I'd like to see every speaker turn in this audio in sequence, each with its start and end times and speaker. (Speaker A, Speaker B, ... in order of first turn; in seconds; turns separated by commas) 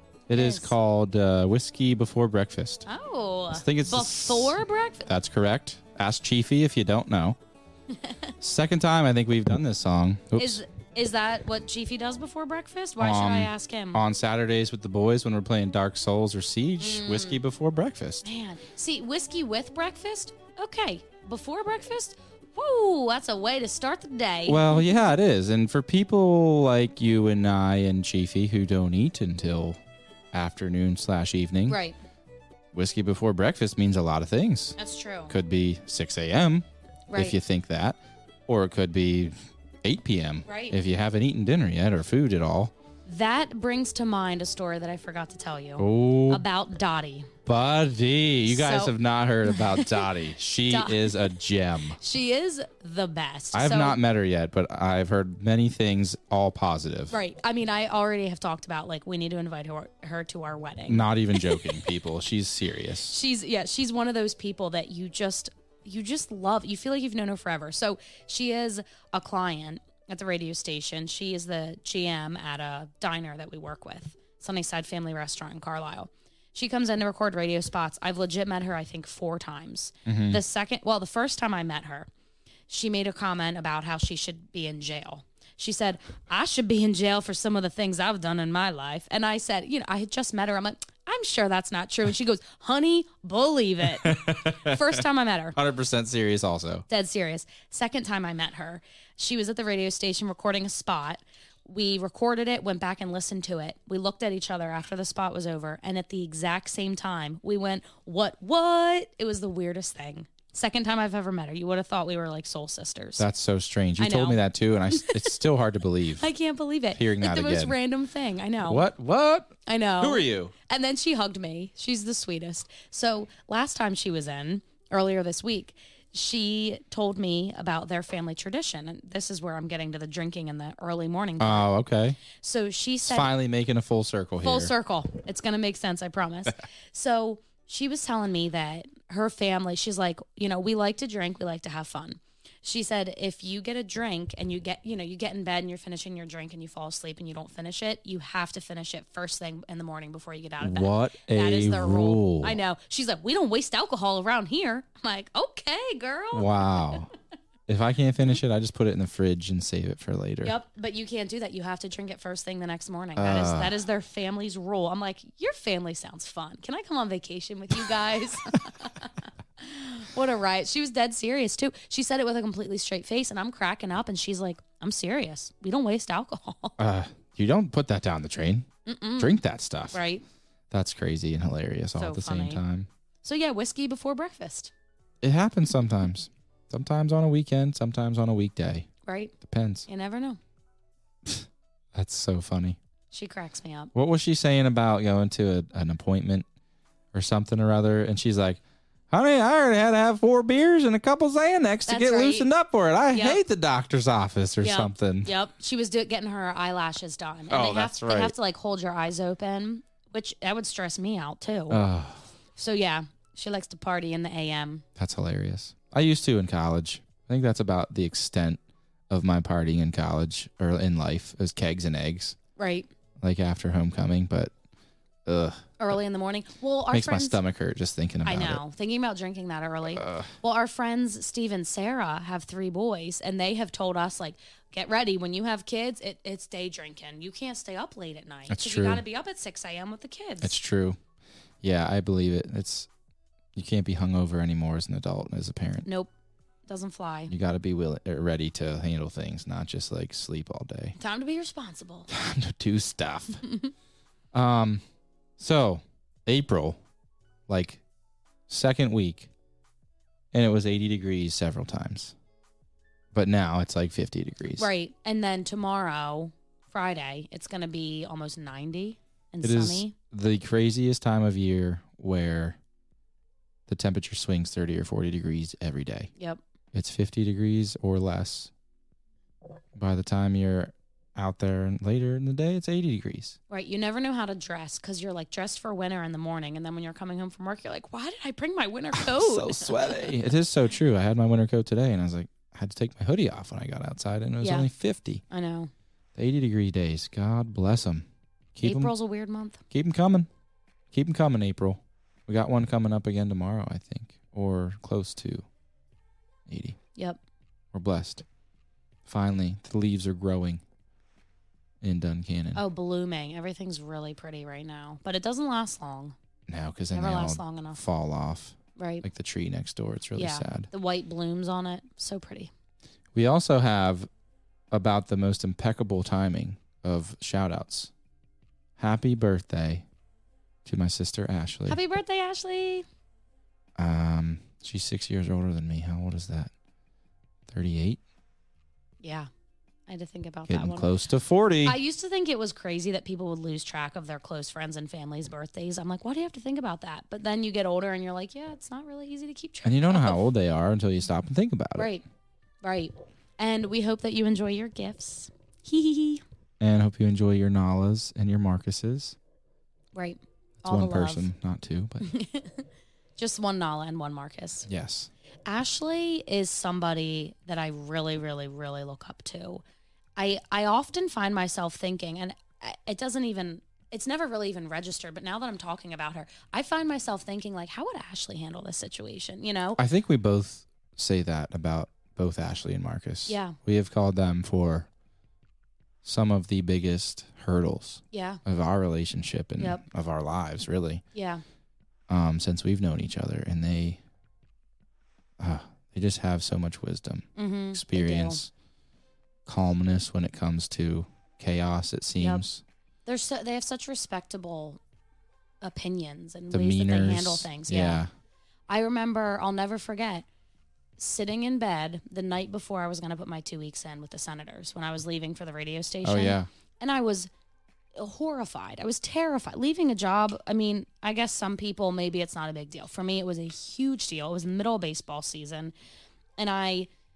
Speaker A: 0.3-2.9, Speaker B: 0.3-0.7, Speaker B: 2.9-5.1, Speaker A: 3.5-7.4, Speaker B: 7.9-8.3, Speaker A: 8.4-10.6, Speaker B: 10.4-14.0, Speaker A: 13.0-18.3, Speaker B: 16.8-17.4, Speaker B: 18.2-24.9, Speaker A: 24.5-29.8, Speaker A: 30.3-31.8, Speaker B: 31.7-32.0, Speaker A: 32.7-34.8, Speaker B: 34.8-35.4, Speaker A: 35.3-42.7, Speaker B: 37.1-37.4, Speaker B: 40.5-40.8, Speaker B: 43.1-47.3, Speaker A: 45.8-46.4, Speaker A: 47.5-52.0, Speaker B: 48.5-50.1, Speaker B: 50.7-51.4, Speaker B: 52.0-54.0, Speaker A: 53.5-57.1, Speaker B: 57.1-61.9, Speaker A: 60.9-63.2, Speaker B: 63.1-82.1, Speaker A: 80.1-80.4, Speaker B: 82.7-95.6, Speaker A: 94.0-95.0, Speaker A: 95.5-96.9, Speaker B: 96.9-113.3, Speaker A: 113.2-116.3, Speaker B: 114.0-114.4, Speaker B: 114.9-115.4, Speaker B: 116.2-118.9, Speaker A: 116.9-117.8, Speaker A: 118.7-120.5, Speaker B: 119.7-131.7, Speaker A: 131.4-132.2, Speaker B: 132.3-133.3, Speaker A: 133.1-134.7, Speaker B: 134.4-157.1, Speaker A: 150.6-152.6, Speaker A: 156.3-157.1, Speaker A: 157.7-160.6, Speaker B: 160.4-176.8, Speaker A: 163.2-163.8, Speaker A: 176.8-178.7, Speaker B: 178.9-179.4, Speaker A: 179.2-180.0, Speaker B: 179.9-180.2, Speaker A: 180.7-182.9, Speaker B: 182.0-182.6, Speaker B: 183.2-184.7, Speaker A: 185.2-188.9, Speaker B: 189.1-189.3, Speaker A: 189.4-189.9, Speaker B: 189.9-190.4, Speaker A: 191.2-192.8, Speaker B: 193.1-193.9, Speaker A: 193.9-196.5, Speaker A: 197.1-198.6, Speaker A: 199.1-205.3, Speaker B: 201.9-202.5, Speaker B: 203.1-203.4, Speaker B: 204.6-211.8, Speaker A: 207.5-208.3, Speaker A: 211.7-212.2, Speaker B: 212.6-214.8, Speaker A: 215.0-222.4, Speaker B: 222.6-222.9, Speaker A: 223.2-224.5, Speaker A: 225.3-225.8, Speaker B: 225.8-227.4, Speaker A: 226.9-228.6, Speaker B: 228.2-240.6, Speaker A: 229.9-230.3, Speaker A: 238.5-239.0, Speaker A: 240.4-241.0, Speaker A: 241.6-242.9, Speaker A: 243.6-245.9, Speaker B: 245.8-246.1, Speaker B: 246.7-247.3, Speaker A: 247.3-250.9, Speaker B: 251.0-252.1, Speaker A: 252.1-253.4, Speaker B: 253.5-253.7, Speaker A: 254.3-254.8, Speaker A: 255.4-256.8, Speaker A: 257.5-257.8, Speaker A: 258.5-259.3, Speaker A: 260.3-262.1, Speaker A: 263.1-264.7, Speaker B: 264.6-269.9, Speaker A: 269.4-272.6, Speaker A: 273.7-276.1, Speaker A: 276.7-278.5, Speaker A: 279.8-283.4, Speaker B: 283.5-290.1, Speaker A: 288.9-295.2, Speaker B: 294.4-294.7, Speaker B: 295.3-295.7, Speaker A: 296.1-298.9, Speaker B: 298.6-299.6, Speaker A: 299.7-300.3, Speaker A: 300.9-305.5, Speaker A: 306.5-306.8, Speaker A: 307.7-308.2, Speaker A: 309.1-310.6, Speaker A: 311.8-312.6, Speaker B: 312.6-316.2, Speaker A: 316.5-320.7, Speaker B: 316.9-317.8, Speaker B: 318.8-319.1, Speaker B: 320.1-322.5, Speaker A: 323.1-324.1, Speaker A: 324.7-327.9, Speaker A: 328.8-329.9, Speaker A: 330.6-331.8, Speaker B: 331.7-332.9, Speaker A: 333.8-336.5, Speaker A: 337.5-338.0, Speaker B: 339.0-339.3, Speaker B: 339.9-340.9, Speaker A: 340.5-341.8, Speaker B: 341.6-350.2, Speaker A: 349.6-351.9, Speaker B: 351.8-352.0, Speaker B: 352.6-356.2, Speaker A: 356.6-359.2, Speaker B: 359.9-361.3, Speaker A: 360.6-362.1, Speaker B: 362.0-364.7, Speaker A: 364.7-365.1, Speaker B: 365.5-369.6, Speaker B: 370.2-379.8, Speaker A: 379.8-384.9, Speaker B: 383.3-383.6, Speaker A: 386.0-391.0, Speaker B: 388.1-388.4, Speaker B: 389.6-389.8, Speaker B: 391.1-391.4, Speaker A: 392.1-394.0, Speaker A: 395.4-398.5, Speaker B: 397.4-398.4, Speaker A: 399.5-402.6, Speaker B: 402.2-402.4, Speaker B: 403.1-404.8, Speaker B: 405.6-408.0, Speaker A: 406.5-408.1, Speaker B: 408.7-410.3, Speaker B: 411.0-417.3, Speaker A: 416.0-416.5, Speaker B: 417.9-425.7, Speaker B: 426.4-426.9